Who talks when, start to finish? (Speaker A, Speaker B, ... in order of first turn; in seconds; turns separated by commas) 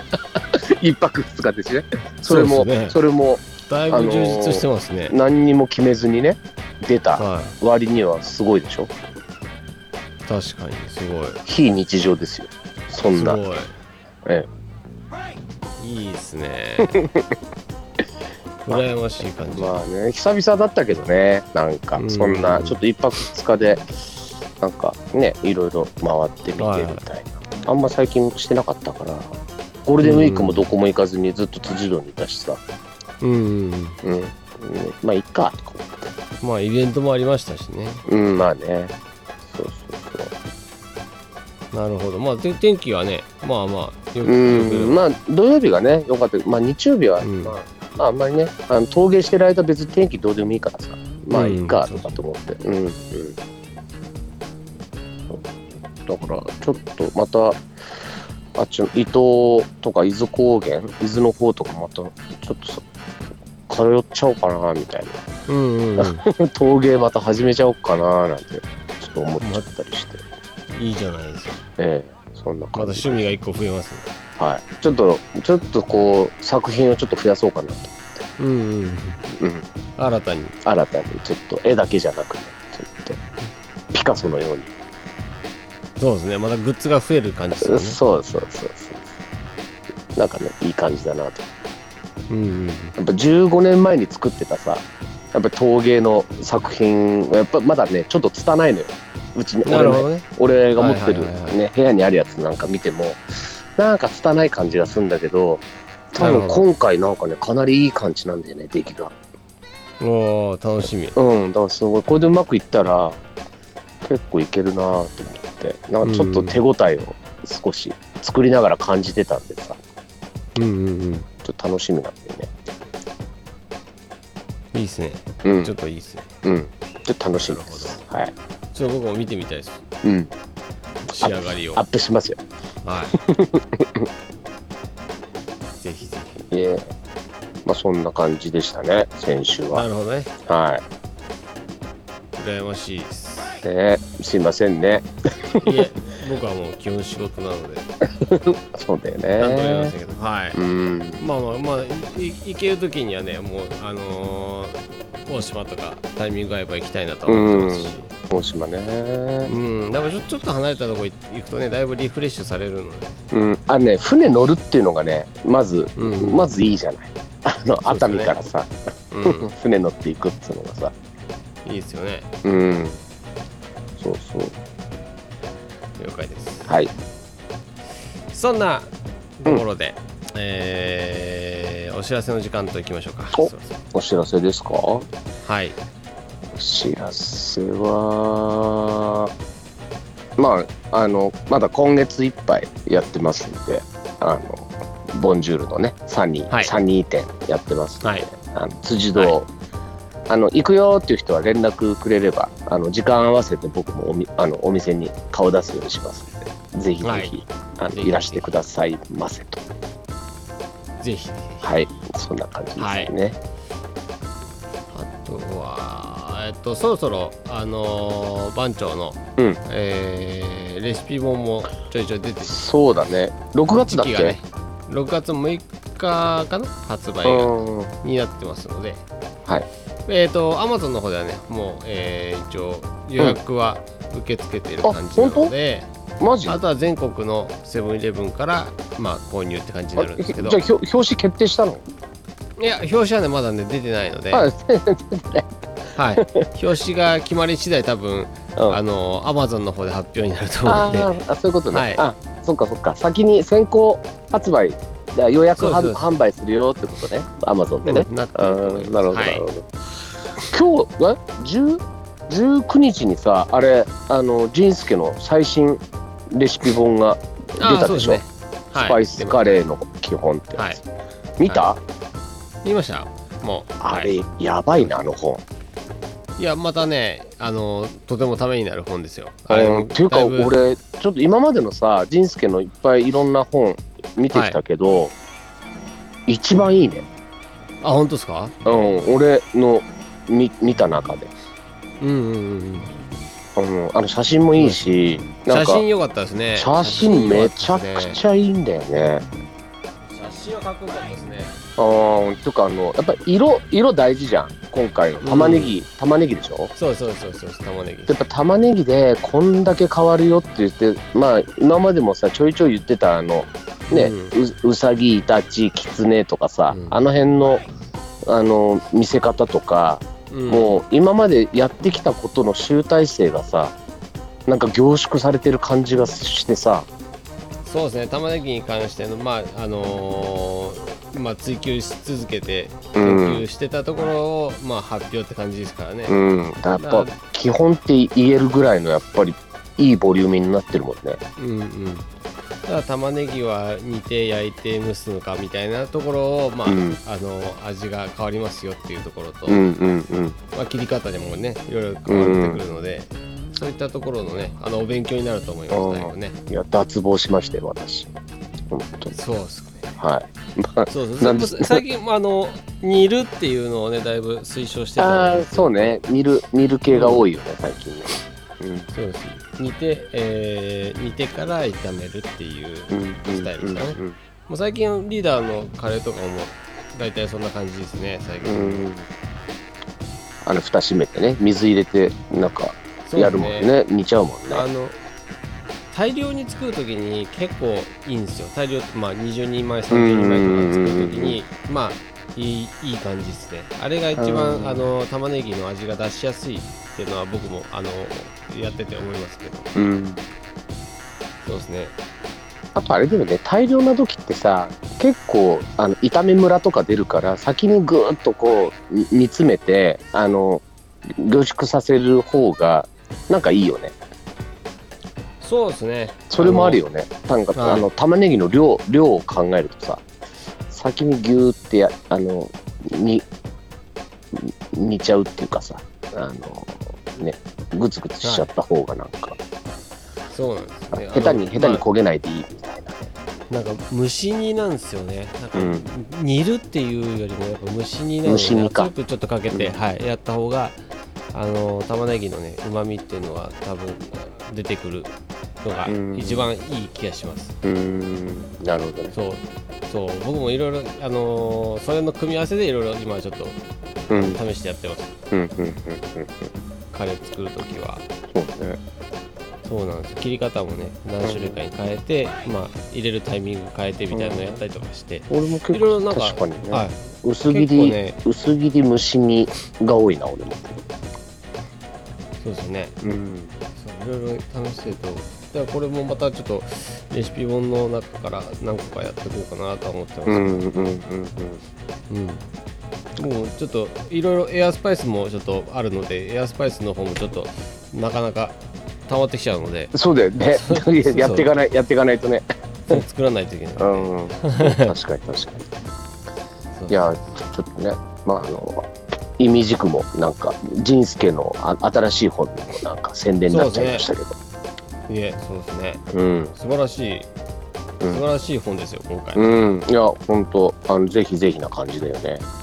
Speaker A: 0.1-8.9, Speaker B: 2.3-3.0, Speaker B: 3.7-5.2, Speaker B: 7.2-7.5, Speaker B: 10.3-11.4, Speaker A: 11.5-13.4, Speaker B: 13.1-13.7, Speaker B: 15.8-17.0, Speaker A: 16.9-17.2, Speaker B: 18.7-19.8, Speaker A: 19.6-29.3, Speaker B: 22.0-22.8, Speaker B: 26.6-27.0, Speaker A: 29.9-32.6, Speaker B: 30.0-30.7, Speaker B: 33.2-34.0, Speaker A: 34.0-36.0, Speaker B: 36.4-38.1, Speaker A: 38.1-38.9, Speaker A: 39.5-40.3, Speaker B: 41.7-45.0, Speaker A: 44.2-53.4, Speaker B: 47.2-47.6, Speaker B: 51.3-52.1, Speaker A: 55.3-57.6, Speaker A: 58.5-62.8, Speaker A: 63.7-65.2, Speaker B: 65.5-66.2, Speaker A: 66.0-70.2, Speaker B: 70.7-71.6, Speaker A: 71.8-73.2, Speaker B: 72.8-74.1, Speaker A: 74.4-78.1, Speaker B: 78.4-79.2, Speaker A: 79.3-79.7, Speaker B: 80.0-80.6, Speaker A: 80.6-83.2, Speaker A: 83.9-84.7, Speaker B: 86.0-88.0, Speaker A: 87.6-89.1, Speaker A: 90.2-91.5, Speaker B: 92.3-93.0, Speaker A: 93.0-109.1, Speaker B: 99.7-100.2, Speaker B: 100.8-101.6, Speaker B: 106.2-106.7, Speaker B: 110.0-111.2, Speaker A: 111.2-113.2, Speaker A: 114.0-119.8, Speaker B: 116.0-116.6, Speaker B: 120.6-121.3, Speaker A: 121.4-122.5, Speaker B: 124.7-126.3, Speaker A: 125.4-125.7, Speaker A: 126.4-128.3, Speaker B: 127.4-128.0, Speaker B: 128.7-129.8, Speaker A: 130.0-130.3, Speaker B: 131.1-131.8, Speaker A: 131.1-132.4, Speaker B: 132.8-133.2, Speaker A: 133.2-134.1, Speaker B: 135.8-136.4, Speaker A: 136.5-136.9, Speaker A: 137.7-139.9, Speaker B: 139.7-140.3, Speaker A: 140.4-140.8, Speaker B: 142.4-143.7, Speaker A: 143.6-145.8, Speaker B: 145.6-147.9, Speaker A: 148.2-149.9, Speaker B: 149.4-150.6, Speaker A: 150.5-151.2, Speaker B: 151.2-158.1, Speaker A: 157.3-159.5, Speaker B: 159.5-163.2, Speaker A: 163.3-168.7, Speaker B: 166.0-166.5, Speaker B: 167.8-168.4, Speaker B: 169.1-169.5, Speaker A: 169.2-170.9, Speaker B: 171.7-172.3, Speaker A: 172.4-173.0, Speaker A: 174.0-174.6, Speaker B: 176.0-176.7, Speaker B: 178.3-183.8, Speaker A: 183.3-185.1, Speaker B: 185.4-185.8, Speaker A: 186.5-189.3, Speaker A: 190.4-199.5, Speaker A: 200.3-209.6, Speaker B: 207.0-207.4, Speaker B: 207.9-208.5, Speaker B: 211.0-211.7, Speaker A: 211.6-213.4, Speaker B: 212.8-213.1, Speaker B: 214.9-222.6, Speaker A: 222.4-224.4, Speaker B: 223.7-229.1, Speaker A: 227.2-227.9, Speaker B: 230.1-235.9, Speaker A: 234.8-235.5, Speaker A: 236.2-236.6, Speaker B: 236.5-240.6, Speaker A: 240.0-241.8, Speaker B: 242.6-244.5, Speaker A: 244.3-245.5, Speaker B: 246.0-251.2, Speaker A: 246.2-246.5, Speaker A: 248.6-248.8, Speaker A: 250.7-259.6, Speaker B: 251.7-252.0, Speaker B: 255.6-256.1, Speaker B: 257.9-259.5, Speaker A: 260.4-268.2, Speaker B: 267.6-269.6, Speaker A: 268.8-270.8, Speaker A: 271.4-271.8, Speaker B: 272.6-274.2, Speaker A: 273.8-275.4, Speaker B: 276.4-280.5, Speaker A: 279.5-285.1, Speaker B: 284.3-284.6, Speaker A: 286.3-287.1, Speaker B: 287.8-288.6, Speaker A: 288.6-291.3, Speaker B: 292.0-292.9, Speaker A: 293.6-295.8, Speaker B: 294.6-298.2, Speaker A: 296.6-299.3, Speaker B: 300.1-301.6, Speaker A: 301.8-306.7, Speaker B: 305.2-305.8, Speaker B: 306.8-308.2, Speaker A: 308.1-317.7, Speaker B: 313.9-314.4, Speaker B: 316.7-317.0, Speaker A: 318.2-323.8, Speaker B: 320.3-320.8, Speaker A: 324.5-326.9, Speaker B: 327.6-336.2, Speaker A: 332.9-333.4, Speaker A: 336.1-341.2, Speaker B: 336.8-337.1, Speaker B: 341.4-342.1, Speaker B: 342.7-349.7, Speaker A: 346.7-347.0, Speaker A: 349.5-350.4, Speaker B: 350.5-356.4, Speaker A: 352.1-352.6, Speaker A: 355.7-358.1, Speaker A: 358.7-359.1, Speaker B: 359.1-359.9, Speaker A: 360.0-361.8, Speaker B: 360.9-366.0, Speaker A: 365.0-368.9, Speaker B: 366.9-367.2, Speaker B: 368.9-378.9, Speaker A: 372.9-374.2, Speaker A: 378.4-379.1, Speaker A: 380.4-384.7, Speaker B: 383.1-383.7, Speaker B: 384.5-385.0, Speaker B: 385.9-399.8, Speaker A: 389.9-391.4, Speaker A: 394.2-394.8, Speaker A: 399.8-400.2, Speaker B: 401.4-401.9, Speaker A: 402.8-413.9, Speaker B: 415.4-416.8, Speaker A: 416.3-420.0, Speaker B: 417.6-417.9, Speaker A: 420.7-423.2, Speaker A: 424.3-429.4, Speaker B: 428.2-428.5, Speaker B: 430.3-431.8, Speaker A: 430.9-433.1, Speaker B: 433.5-440.8, Speaker A: 435.6-435.9, Speaker A: 438.2-438.9, Speaker A: 439.5-439.8, Speaker B: 441.3-447.6, Speaker A: 445.9-446.5, Speaker A: 447.6-449.1, Speaker B: 449.1-453.6, Speaker B: 454.1-455.1, Speaker A: 454.1-454.4, Speaker A: 455.3-456.5, Speaker B: 456.9-458.0, Speaker A: 458.3-458.8, Speaker B: 459.6-468.2, Speaker A: 461.2-461.6, Speaker A: 464.1-464.6, Speaker A: 465.3-470.8, Speaker B: 472.4-472.9, Speaker A: 473.0-473.5, Speaker B: 473.8-480.6, Speaker A: 480.3-481.6, Speaker B: 482.1-482.4, Speaker B: 483.2-488.6, Speaker B: 489.1-489.9, Speaker A: 489.9-493.0, Speaker B: 490.5-491.5, Speaker B: 492.9-494.9, Speaker A: 493.8-495.7, Speaker B: 496.8-497.3, Speaker A: 496.9-498.9, Speaker A: 499.4-504.4, Speaker B: 503.5-504.1, Speaker B: 505.1-506.0, Speaker A: 506.1-506.5, Speaker B: 506.5-507.3, Speaker B: 508.1-509.6, Speaker A: 509.4-512.5